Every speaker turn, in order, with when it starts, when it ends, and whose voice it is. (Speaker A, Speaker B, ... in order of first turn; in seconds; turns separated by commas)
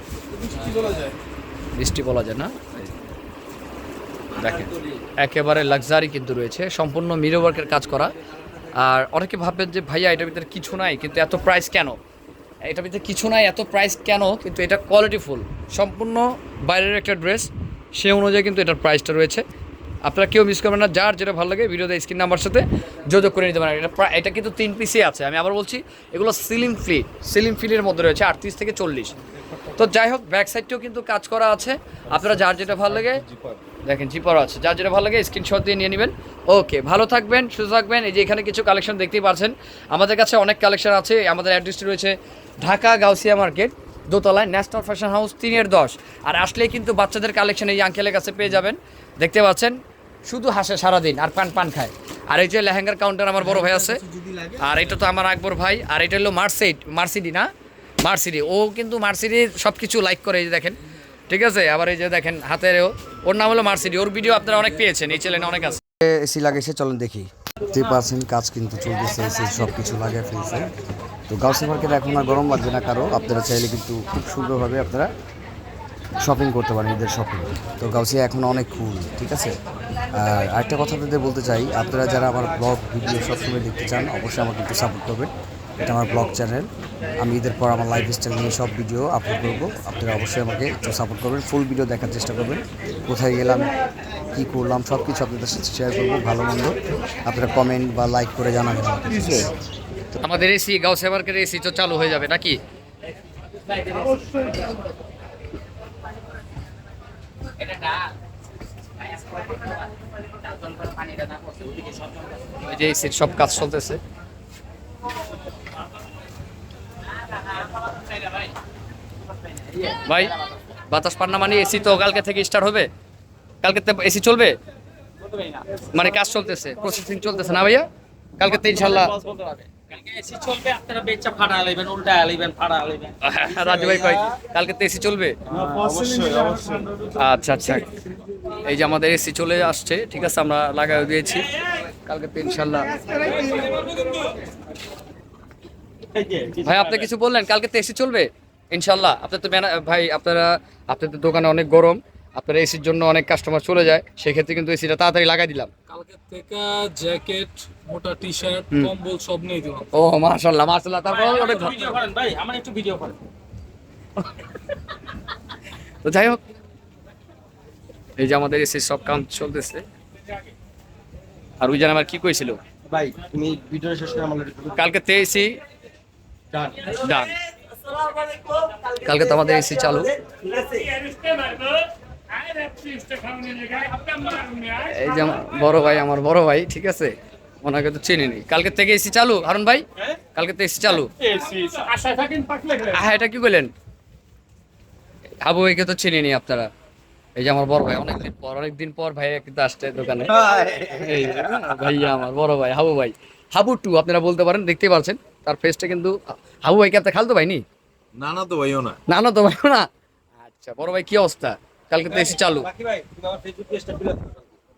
Speaker A: 0.3-1.2, Speaker B: 1.7-2.9, Speaker B: 4.3-8.2, Speaker B: 8.7-12.0, Speaker B: 12.6-19.4, Speaker B: 20.0-29.1, Speaker A: 29.2-29.9, Speaker B: 29.8-33.2, Speaker A: 32.1-33.6, Speaker B: 33.8-54.0, Speaker A: 54.1-54.5, Speaker B: 54.6-57.5, Speaker B: 58.0-65.8, Speaker C: 66.0-70.7, Speaker C: 71.3-75.1, Speaker C: 76.2-79.5, Speaker C: 80.1-85.3, Speaker C: 85.8-86.7, Speaker C: 87.2-93.7, Speaker C: 94.3-99.5, Speaker B: 100.2-102.6, Speaker D: 110.5-112.2, Speaker B: 112.6-114.0, Speaker B: 119.8-120.3, Speaker B: 120.9-122.9, Speaker B: 123.6-124.5, Speaker B: 125.8-129.2, Speaker D: 128.6-133.1, Speaker B: 133.2-135.4, Speaker A: 135.5-136.9, Speaker D: 135.5-136.3, Speaker B: 137.1-137.9, Speaker B: 138.4-143.7, Speaker D: 143.4-144.3, Speaker D: 146.1-146.8, Speaker B: 146.6-155.7, Speaker E: 155.9-159.9, Speaker B: 159.9-161.9, Speaker D: 161.3-163.2, Speaker B: 164.2-164.5, Speaker B: 166.0-166.4, Speaker B: 168.2-169.8, Speaker B: 171.6-172.6, Speaker D: 172.9-174.8, Speaker B: 174.7-175.6, Speaker D: 176.5-176.9, Speaker B: 176.8-177.3, Speaker B: 179.0-180.1, Speaker D: 180.6-180.9, Speaker B: 184.5-191.1, Speaker D: 191.2-192.5, Speaker B: 192.6-193.7, Speaker B: 195.4-196.7, Speaker B: 197.4-207.6, Speaker A: 208.2-208.9, Speaker B: 209.1-209.9, Speaker B: 210.4-212.7, Speaker D: 212.3-214.5